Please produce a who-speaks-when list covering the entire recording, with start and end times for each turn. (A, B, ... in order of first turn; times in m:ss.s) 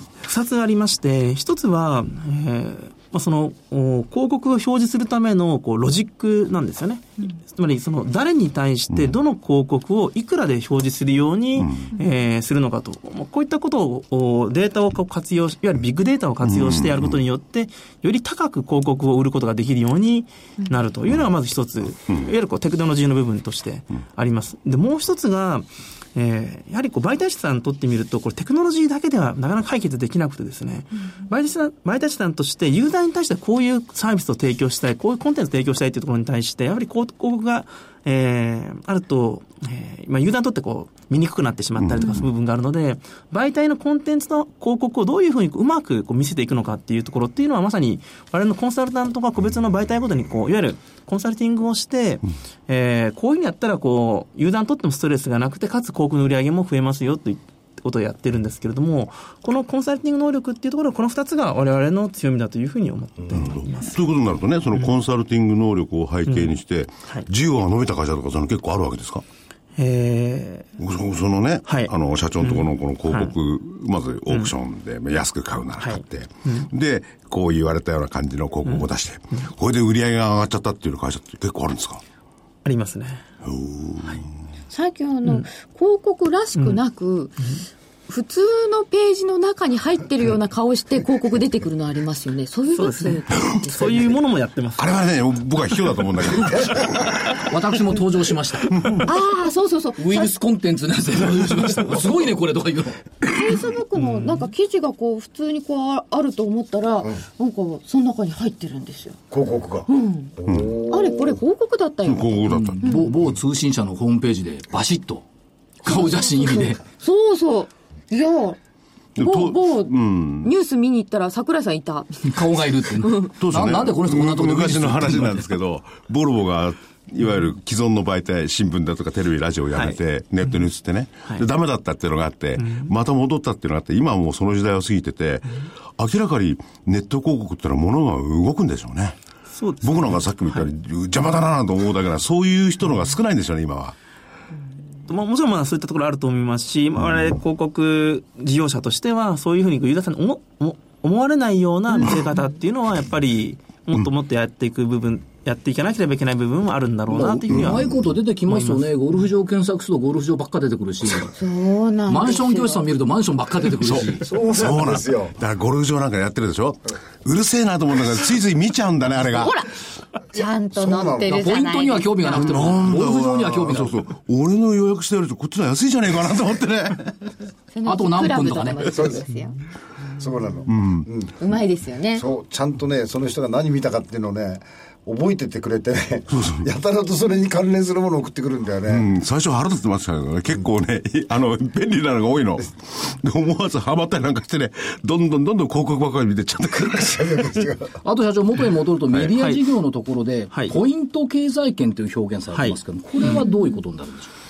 0:00.2-1:04.0 A
0:11.6-0:11.9 B
0:16.4-0:17.1 B
0:41.8-0:42.2 B
1:03.3-1:09.2 B
1:06.3-1:06.5 A
1:09.8-1:10.7 A
1:10.8-1:22.0 B
1:11.7-1:13.3 A
1:15.8-1:16.7 A
1:22.6-1:23.2 A
1:23.4-1:24.3 B
1:24.7-1:27.5 C
1:28.1-1:34.1 C
1:32.7-1:34.9 A
1:34.8-1:37.4 B
1:37.4-1:39.0 D
1:39.0-1:40.3 C
1:40.0-1:43.1 D
1:43.2-1:49.2 C
1:43.9-1:44.4 A
1:49.3-1:51.4 E
1:49.9-1:50.3 C
1:50.4-1:50.8 B
1:50.9-1:53.1 C
1:52.0-1:52.8 B
1:52.5-1:55.2 D
1:55.8-1:56.8 D
1:55.8-1:58.6 C
1:59.1-2:00.5 B
1:59.2-2:02.4 C
2:02.2-2:05.5 D
2:03.0-2:03.3 C
2:03.4-2:19.2 B
2:12.6-2:12.9 A
2:19.5-2:20.7 A
2:19.8-2:23.9 B
2:25.1-2:37.9 A
2:37.1-2:41.3 D
2:37.5-2:37.9 B
2:38.5-2:38.8 A
2:41.3-2:42.9 C
2:42.1-2:44.3 D
2:43.8-2:49.6 B
2:44.2-2:45.4 E
2:49.3-2:49.7 C
2:50.3-2:52.9 C
2:50.3-2:51.6 E
2:51.3-2:54.0 D
2:52.3-2:57.3 B
2:57.7-2:59.6 C
2:57.8-2:59.2 D
2:58.9-2:59.2 E
3:00.2-3:01.4 E
3:00.7-3:01.1 B
3:01.4-3:02.2 C
3:02.1-3:09.0 E
3:06.3-3:06.6 B
3:08.9-3:17.7 B
3:16.8-3:17.9 E
3:18.0-3:24.3 D
3:19.4-3:19.6 A
3:22.5-3:23.3 A